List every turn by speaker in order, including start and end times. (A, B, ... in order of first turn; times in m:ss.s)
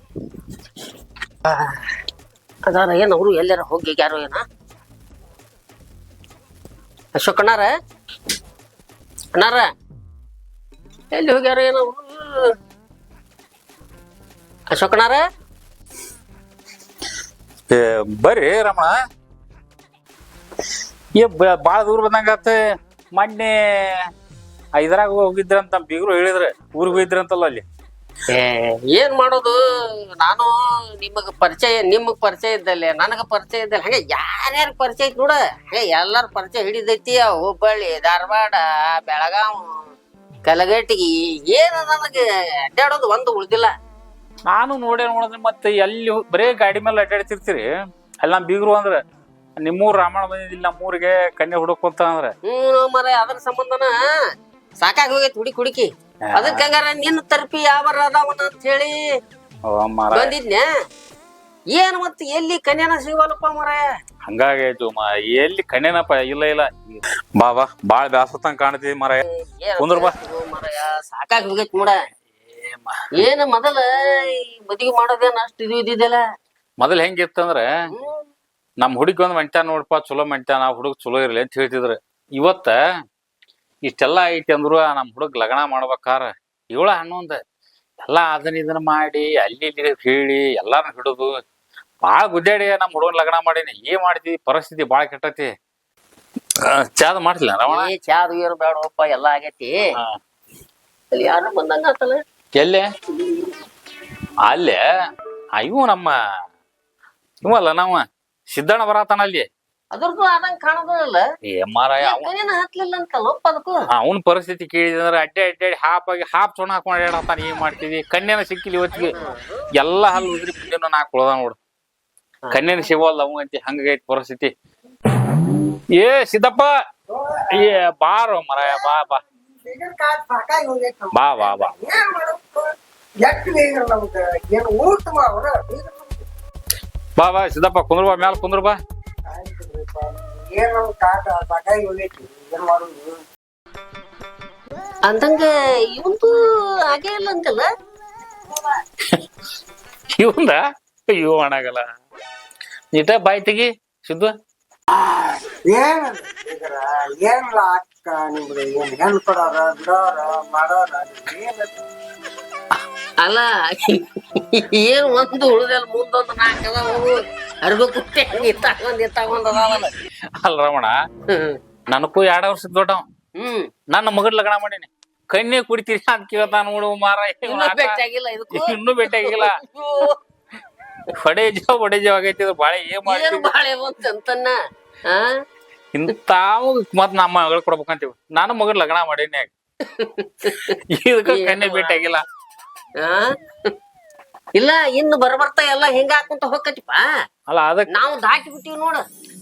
0:01.5-0:01.8 A
0:02.7-0:04.4 A
0:07.2-0:07.7 A
0:09.4-0:09.6 A
0:11.1-0:12.5 A
0:14.7-0:15.2 A
0:17.7-0:18.9 B
0:21.2-0:22.6 B
0:23.1-0:23.5 B
0:24.8-0:27.6 B
0:28.3-0:29.6 A
0:30.2-0:39.7 A
0:40.4-0:43.7 A
0:44.5-0:47.6 B
0:48.2-0:49.0 B
0:49.6-0:52.3 B
0:52.5-0:54.0 A
0:54.8-0:59.0 A
0:56.3-0:56.6 B
0:59.7-1:00.4 B
1:00.1-1:00.7 A
1:01.7-1:03.8 A
1:04.3-1:09.2 B
1:09.6-1:12.0 A
1:09.8-1:10.2 B
1:12.4-1:12.9 B
1:13.2-1:16.2 A
1:16.8-1:17.6 B
1:17.9-1:18.3 A
1:18.8-1:22.8 B
1:23.8-1:27.4 B
1:28.0-1:31.3 B
1:32.0-1:35.5 B
1:36.8-1:37.9 B
1:37.7-1:39.8 A
1:41.1-1:42.2 A
1:42.6-1:42.9 B
1:44.5-1:44.8 B
1:45.6-1:46.1 B
1:47.4-1:49.5 B
1:49.9-1:51.2 A
1:51.5-1:52.3 B
1:52.0-1:53.9 A
1:53.9-1:59.2 B
1:59.2-1:59.6 A
1:59.8-2:01.6 B
2:02.5-2:02.8 A
2:02.5-2:04.5 B
2:06.0-2:06.7 B
2:07.1-2:07.4 C
2:07.6-2:09.2 B
2:08.6-2:09.0 C
2:09.6-2:12.7 C
2:11.1-2:11.8 B
2:13.2-2:16.2 C
2:17.2-2:18.8 B
2:19.3-2:23.2 C
2:25.1-2:26.4 A
2:26.9-2:27.6 A
2:30.2-2:31.8 B
2:32.9-2:34.3 B
2:35.7-2:41.7 C
2:43.2-2:49.9 A
2:50.4-2:50.9 B
2:51.9-2:53.0 B
2:53.4-2:53.7 A
2:53.9-2:59.6 B
2:57.4-3:00.2 A
3:01.1-3:03.5 B
3:03.0-3:04.6 A
3:05.9-3:09.5 B
3:10.0-3:10.7 A
3:10.7-3:12.2 B
3:11.3-3:12.0 A
3:13.0-3:13.7 A
3:14.6-3:17.0 A
3:17.5-3:17.9 B
3:17.9-3:19.0 A